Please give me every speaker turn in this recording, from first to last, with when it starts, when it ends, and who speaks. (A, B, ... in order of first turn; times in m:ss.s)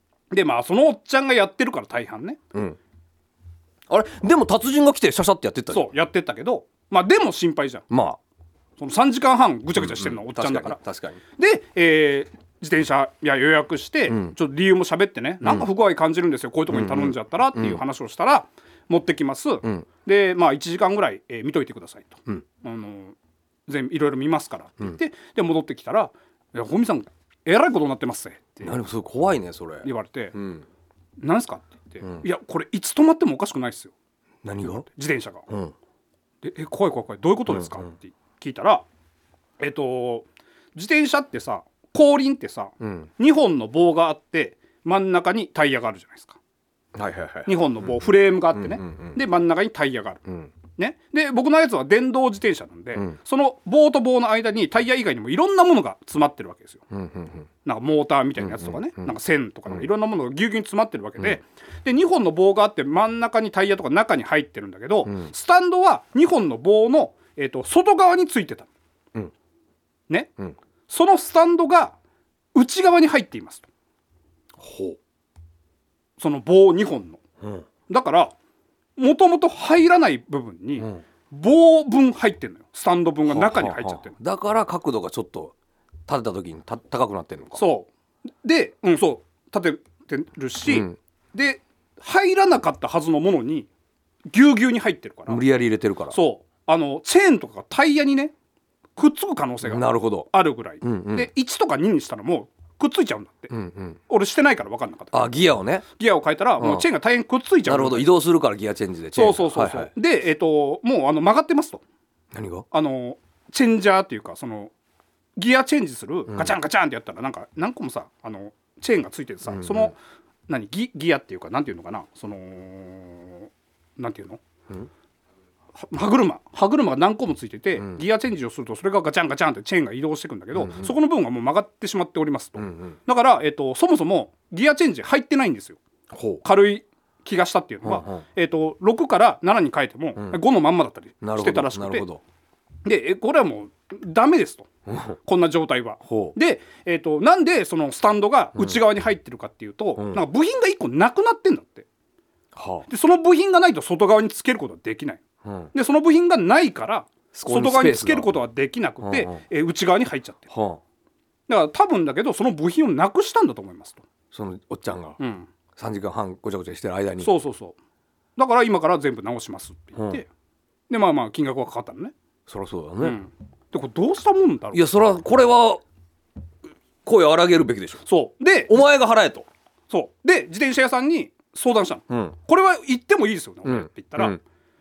0:00.3-0:02.4 A
0:03.9-0:05.9 B
0:05.7-0:07.8 A
0:07.9-0:08.2 B
0:08.8-0:10.8 A
0:09.8-0:11.2 B
0:11.4-0:23.2 A
0:14.1-0:14.4 B
0:15.4-0:15.7 B
0:16.7-0:17.8 B
0:23.7-0:28.8 A
0:28.6-0:30.7 B
0:29.8-0:30.4 A
0:31.2-0:33.9 A
0:34.4-0:34.9 B
0:34.7-0:35.4 A
0:35.5-0:35.7 B
0:36.4-0:38.8 A
0:37.5-0:37.9 B
0:39.6-0:46.4 A
0:42.8-0:43.1 B
0:47.0-0:49.2 B
0:47.5-0:50.2 A
0:50.3-0:50.5 B
0:50.8-0:56.8 A
0:56.9-0:57.5 B
0:57.6-1:08.7 A
0:58.4-0:59.1 B
1:10.9-1:12.0 A
1:12.5-1:13.7 A
1:14.6-1:15.0 B
1:16.2-1:17.2 A
1:17.4-1:17.7 B
1:17.9-1:18.3 A
1:19.0-1:24.2 A
1:20.8-1:21.0 B
1:23.3-1:25.5 B
1:26.1-1:27.6 B
1:27.6-1:27.9 A
1:28.4-1:33.7 A
1:30.7-1:31.0 B
1:34.3-1:35.4 A
1:35.3-1:36.2 B
1:36.1-1:38.3 A
1:39.0-1:43.5 A
1:39.6-1:40.3 B
1:40.8-1:41.3 B
1:43.5-1:44.0 B
1:44.1-1:45.3 A
1:45.1-1:45.8 B
1:45.9-1:48.1 A
1:46.6-1:46.9 B
1:47.6-1:49.9 B
1:49.1-1:51.8 A
1:52.3-1:52.7 B
1:52.7-1:54.7 A
1:55.4-2:00.0 A
1:56.3-1:56.6 B
1:59.5-1:59.9 B
2:00.5-2:04.4 A
2:05.8-2:15.8 A
2:10.6-2:10.9 B
2:12.6-2:13.0 B
2:16.1-2:16.4 B
2:16.4-2:22.1 A
2:17.8-2:18.2 B
2:21.2-2:22.2 B
2:22.8-2:24.7 A
2:24.9-2:25.2 B
2:25.2-2:31.9 A
2:26.0-2:26.4 B
2:28.6-2:28.8 B
2:30.0-2:30.2 B
2:32.6-2:32.9 B
2:32.9-2:35.2 A
2:35.4-2:35.7 B
2:35.7-2:40.5 A
2:37.3-2:38.3 B
2:39.0-2:39.4 B
2:40.5-2:40.8 B
2:41.5-2:44.0 A
2:44.3-2:45.2 B
2:45.2-2:45.5 A
2:45.8-2:47.3 B
2:47.2-2:47.8 A
2:48.4-2:50.3 A
2:50.0-2:50.2 B
2:50.9-2:52.1 A
2:52.5-2:53.2 B
2:53.0-2:54.9 A
2:54.7-2:55.8 B
2:57.0-2:58.0 B
2:58.1-2:58.8 A
2:58.7-2:59.5 B
2:59.9-3:04.4 A
3:02.1-3:02.4 B
3:03.6-3:04.4 B